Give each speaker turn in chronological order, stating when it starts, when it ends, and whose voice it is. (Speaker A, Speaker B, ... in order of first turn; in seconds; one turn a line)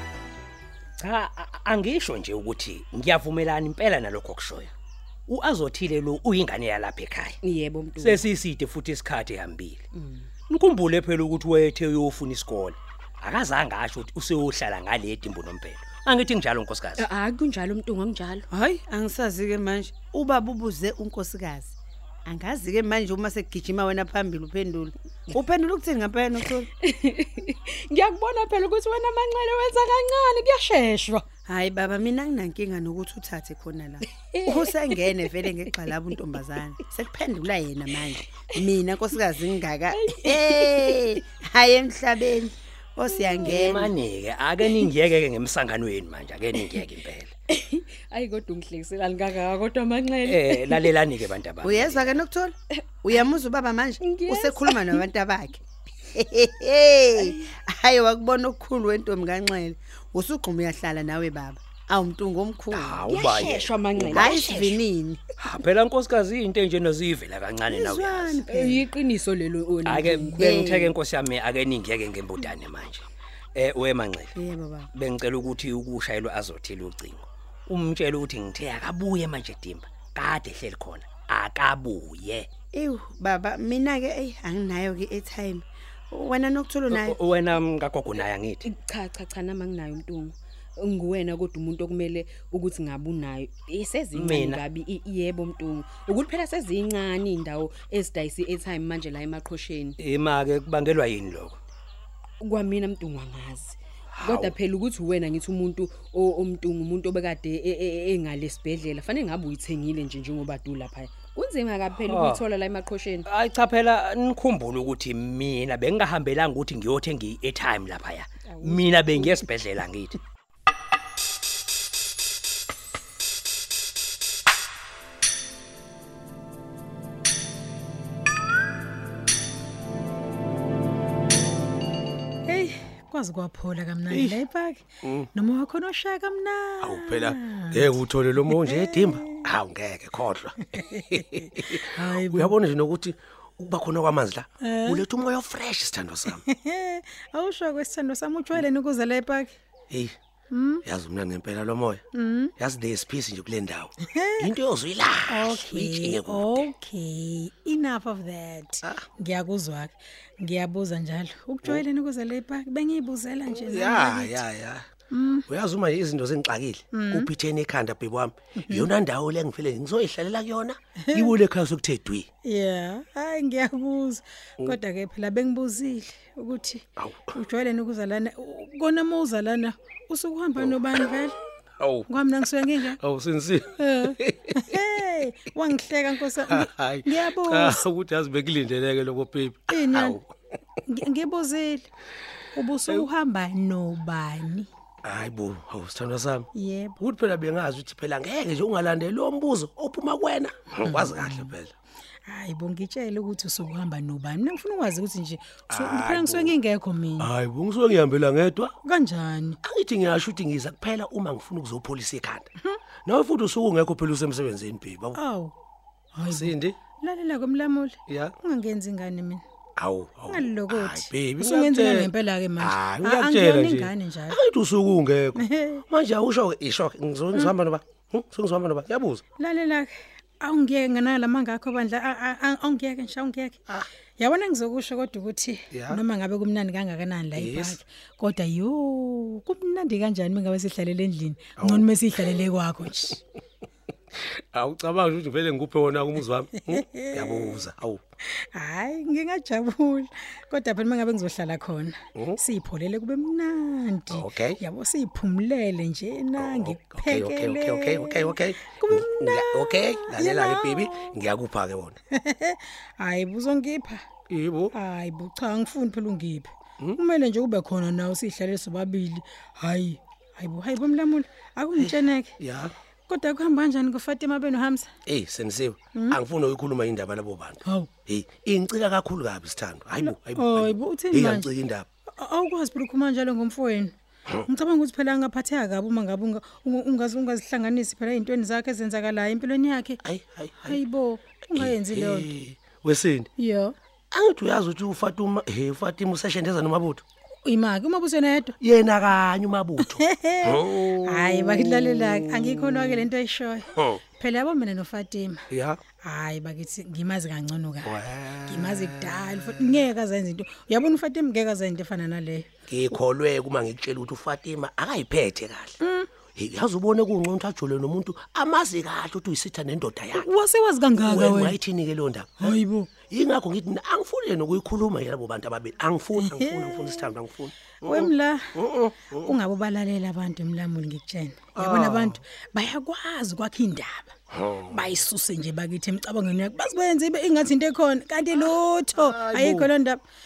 Speaker A: 1.0-4.7
Speaker A: 5.3-7.4
Speaker B: 7.4-8.2
Speaker A: 8.0-9.8
Speaker B: 9.9-10.3
Speaker A: 10.5-17.1
Speaker B: 17.0-18.4
Speaker C: 18.5-21.7
Speaker C: 22.2-26.7
Speaker B: 26.8-31.2
Speaker C: 31.5-43.9
Speaker B: 34.1-35.0
Speaker B: 35.9-36.2
Speaker B: 39.9-41.0
Speaker A: 43.4-47.3
Speaker B: 47.5-50.9
Speaker A: 50.2-52.2
Speaker C: 51.6-55.6
Speaker B: 54.0-55.0
Speaker C: 56.1-63.3
Speaker B: 57.2-57.5
Speaker A: 62.7-64.5
Speaker B: 63.1-64.8
Speaker C: 64.1-65.2
Speaker A: 65.4-68.4
Speaker C: 67.7-68.9
Speaker B: 68.5-70.4
Speaker A: 69.8-74.3
Speaker C: 70.4-70.9
Speaker C: 74.3-74.9
Speaker A: 74.9-82.5
Speaker C: 82.7-87.2
Speaker A: 86.9-88.7
Speaker B: 88.6-100.0
Speaker A: 94.1-94.6
Speaker A: 100.0-101.6
Speaker B: 102.4-113.3
Speaker A: 104.1-104.5
Speaker A: 112.0-112.4
Speaker A: 113.3-120.2
Speaker B: 118.5-119.4
Speaker D: 132.4-139.5
Speaker E: 134.1-134.4
Speaker E: 135.0-135.3
Speaker E: 136.8-146.4
Speaker D: 140.6-142.5
Speaker D: 144.6-145.0
Speaker D: 146.4-149.5
Speaker E: 149.9-150.1
Speaker D: 150.5-150.8
Speaker E: 150.8-152.0
Speaker D: 152.1-152.5
Speaker E: 152.6-156.7
Speaker D: 154.0-154.5
Speaker D: 155.3-164.4
Speaker E: 163.5-164.8
Speaker D: 165.1-165.4
Speaker E: 165.5-172.3
Speaker D: 166.9-167.3
Speaker D: 168.6-168.9
Speaker D: 172.4-181.4
Speaker E: 177.0-177.3
Speaker E: 181.8-182.1
Speaker D: 182.1-183.0
Speaker E: 182.9-184.6
Speaker D: 183.8-187.8
Speaker E: 186.4-190.2
Speaker D: 189.7-190.2
Speaker D: 190.9-191.9
Speaker D: 192.5-194.7
Speaker E: 195.0-196.5
Speaker D: 196.5-197.0
Speaker E: 197.0-201.7
Speaker D: 200.8-201.5
Speaker D: 202.3-207.3
Speaker E: 205.7-206.5
Speaker E: 207.2-208.7
Speaker D: 208.8-209.6
Speaker E: 209.6-212.5
Speaker E: 213.1-215.2
Speaker D: 215.1-215.5
Speaker D: 216.1-219.4
Speaker E: 216.3-216.8
Speaker E: 218.1-218.3
Speaker E: 219.8-229.2
Speaker D: 220.3-224.4
Speaker D: 225.4-225.8
Speaker D: 229.4-233.6
Speaker D: 234.2-243.2
Speaker E: 235.7-236.0
Speaker E: 237.3-237.8
Speaker E: 241.6-241.9
Speaker E: 244.2-248.0
Speaker D: 246.6-247.6
Speaker D: 248.3-261.2
Speaker E: 254.1-254.6
Speaker E: 256.4-261.9
Speaker D: 262.1-264.0
Speaker E: 264.3-264.7
Speaker D: 264.7-272.4
Speaker E: 271.8-272.7
Speaker D: 273.1-274.9
Speaker E: 275.1-281.9
Speaker D: 277.6-277.9
Speaker D: 280.0-281.5
Speaker D: 282.2-283.9
Speaker D: 284.5-290.0
Speaker E: 290.0-290.8
Speaker D: 290.6-292.3
Speaker E: 291.5-293.3
Speaker D: 293.4-293.7
Speaker E: 294.1-297.0
Speaker D: 297.4-298.6
Speaker E: 298.6-303.1
Speaker D: 299.8-305.4
Speaker E: 303.7-304.0
Speaker E: 305.5-305.8
Speaker D: 306.0-312.5
Speaker E: 307.8-309.7
Speaker E: 312.7-315.7
Speaker D: 315.8-316.1
Speaker E: 316.3-320.3
Speaker D: 320.1-321.6
Speaker E: 321.0-322.6
Speaker D: 322.4-322.9
Speaker E: 323.1-329.3
Speaker D: 326.2-327.1
Speaker D: 327.8-328.5
Speaker D: 329.2-334.1
Speaker E: 331.5-332.2
Speaker E: 334.3-334.9
Speaker D: 334.7-340.0
Speaker E: 339.1-339.7